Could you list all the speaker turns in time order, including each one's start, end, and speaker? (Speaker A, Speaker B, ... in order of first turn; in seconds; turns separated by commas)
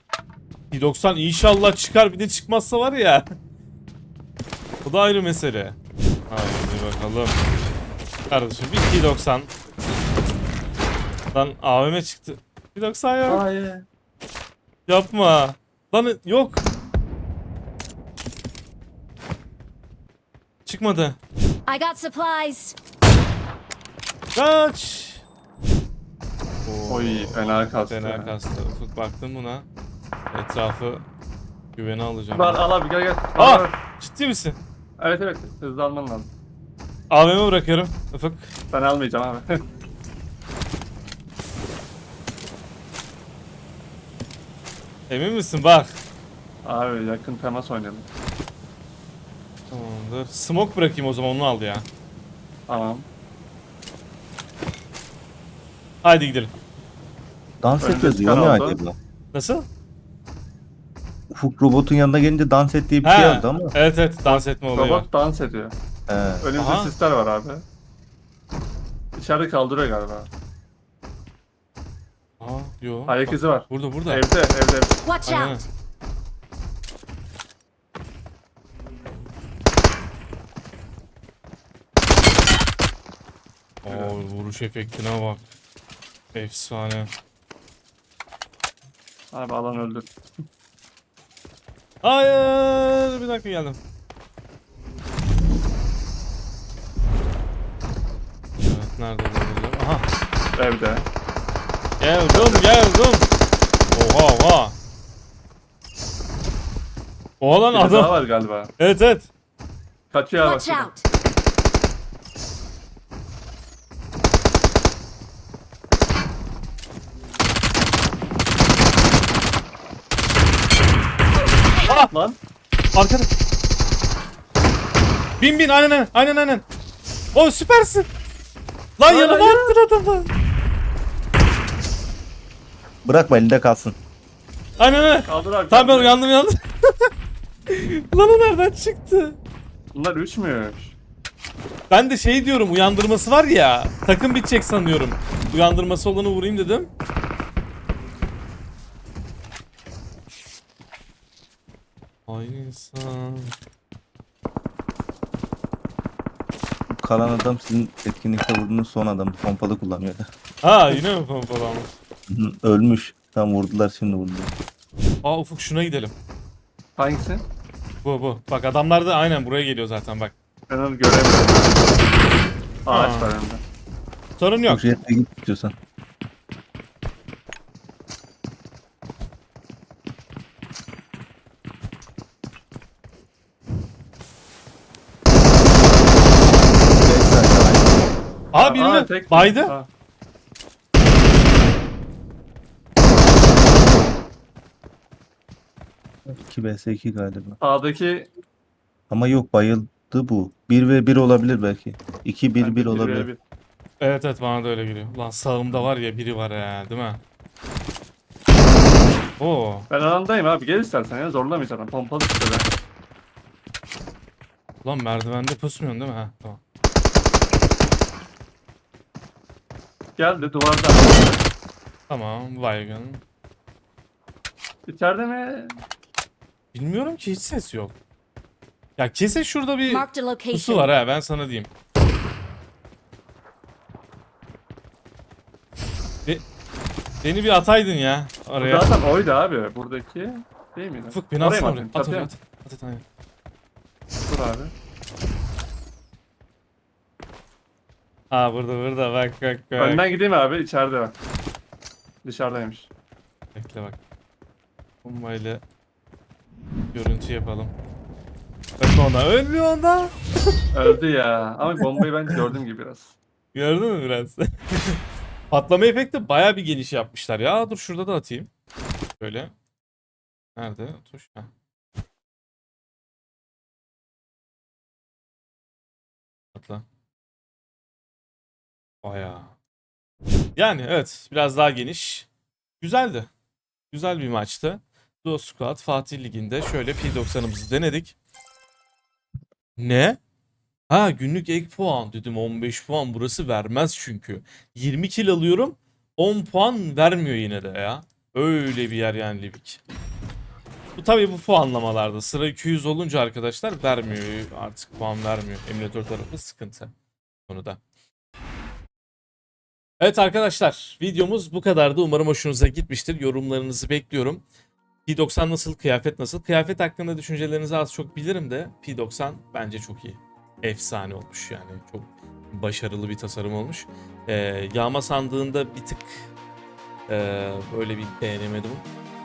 Speaker A: 0.7-3.3, Speaker A: 4.8-5.8, Speaker A: 6.3-7.4, Speaker A: 8.3-9.5, Speaker A: 11.3-13.4, Speaker B: 13.3-13.8, Speaker A: 14.9-16.6, Speaker A: 20.7-21.2, Speaker C: 21.7-22.8, Speaker A: 24.4-25.2, Speaker A: 26.6-29.7, Speaker B: 26.9-28.3, Speaker A: 30.3-31.1, Speaker A: 31.8-32.6, Speaker B: 32.3-33.8, Speaker A: 33.4-34.6, Speaker B: 35.0-36.3, Speaker A: 37.1-38.5, Speaker B: 38.7-39.6, Speaker A: 45.1-46.0, Speaker B: 46.6-48.1, Speaker A: 49.7-51.9, Speaker B: 52.7-53.1, Speaker A: 56.0-56.5, Speaker D: 57.6-59.0, Speaker B: 57.8-58.8, Speaker A: 59.3-59.7, Speaker D: 61.3-63.8, Speaker A: 63.0-65.1, Speaker B: 64.3-65.8, Speaker D: 66.1-66.5, Speaker B: 66.4-67.6, Speaker A: 66.6-66.9, Speaker B: 69.2-70.3, Speaker A: 72.4-74.2, Speaker B: 73.1-75.0, Speaker C: 75.0-75.7, Speaker A: 75.3-75.7, Speaker A: 83.8-85.5, Speaker B: 83.9-84.2, Speaker A: 86.3-87.1, Speaker B: 89.3-90.1, Speaker A: 92.0-93.8, Speaker A: 98.6-100.1, Speaker B: 100.6-101.1, Speaker A: 102.0-103.3, Speaker B: 102.3-102.6, Speaker A: 103.9-104.8, Speaker A: 107.4-108.2, Speaker B: 107.7-108.7, Speaker A: 108.8-109.3, Speaker B: 110.1-110.9, Speaker C: 110.4-111.0, Speaker A: 121.8-122.1, Speaker B: 121.9-122.4, Speaker A: 122.9-123.3, Speaker A: 125.4-126.7, Speaker A: 127.3-128.1, Speaker A: 129.0-130.3, Speaker B: 129.1-129.8, Speaker D: 133.0-134.0, Speaker A: 134.8-137.1, Speaker B: 135.3-136.2, Speaker A: 137.7-139.4, Speaker B: 139.9-140.9, Speaker A: 141.9-146.9, Speaker A: 152.3-153.6, Speaker D: 156.9-160.3, Speaker A: 160.6-162.0, Speaker D: 162.3-164.5, Speaker A: 165.2-166.1, Speaker B: 167.0-167.5, Speaker A: 168.0-170.3, Speaker B: 170.7-171.8, Speaker B: 172.9-173.6, Speaker A: 172.9-173.3, Speaker A: 174.4-174.9, Speaker D: 174.7-175.7, Speaker D: 186.9-188.1, Speaker A: 188.5-189.7, Speaker B: 188.6-189.9, Speaker D: 196.3-197.6, Speaker B: 197.6-198.3, Speaker D: 199.1-203.3, Speaker B: 202.6-203.4, Speaker A: 204.0-207.2, Speaker A: 209.4-209.9, Speaker B: 209.9-212.7, Speaker A: 214.8-216.6, Speaker B: 220.2-221.4, Speaker A: 222.1-223.2, Speaker B: 224.9-225.8, Speaker A: 226.7-227.9, Speaker A: 229.0-231.7, Speaker C: 229.9-230.9, Speaker A: 237.2-238.9, Speaker B: 238.6-242.3, Speaker A: 241.1-243.0, Speaker B: 244.3-244.7, Speaker A: 248.3-250.1, Speaker B: 249.8-251.2, Speaker B: 252.2-252.9, Speaker A: 253.6-254.0, Speaker A: 255.0-255.6, Speaker A: 256.9-257.8, Speaker A: 258.8-260.1, Speaker B: 260.7-263.2, Speaker A: 263.5-268.5, Speaker A: 269.2-269.5, Speaker A: 270.6-271.5, Speaker A: 276.5-276.8, Speaker A: 279.0-279.5, Speaker A: 280.6-282.3, Speaker A: 282.8-283.3, Speaker A: 283.9-288.2, Speaker A: 289.8-290.2, Speaker A: 290.9-299.8, Speaker A: 301.0-306.9, Speaker A: 307.5-307.8, Speaker A: 310.0-314.4, Speaker A: 315.1-326.3, Speaker A: 327.1-328.9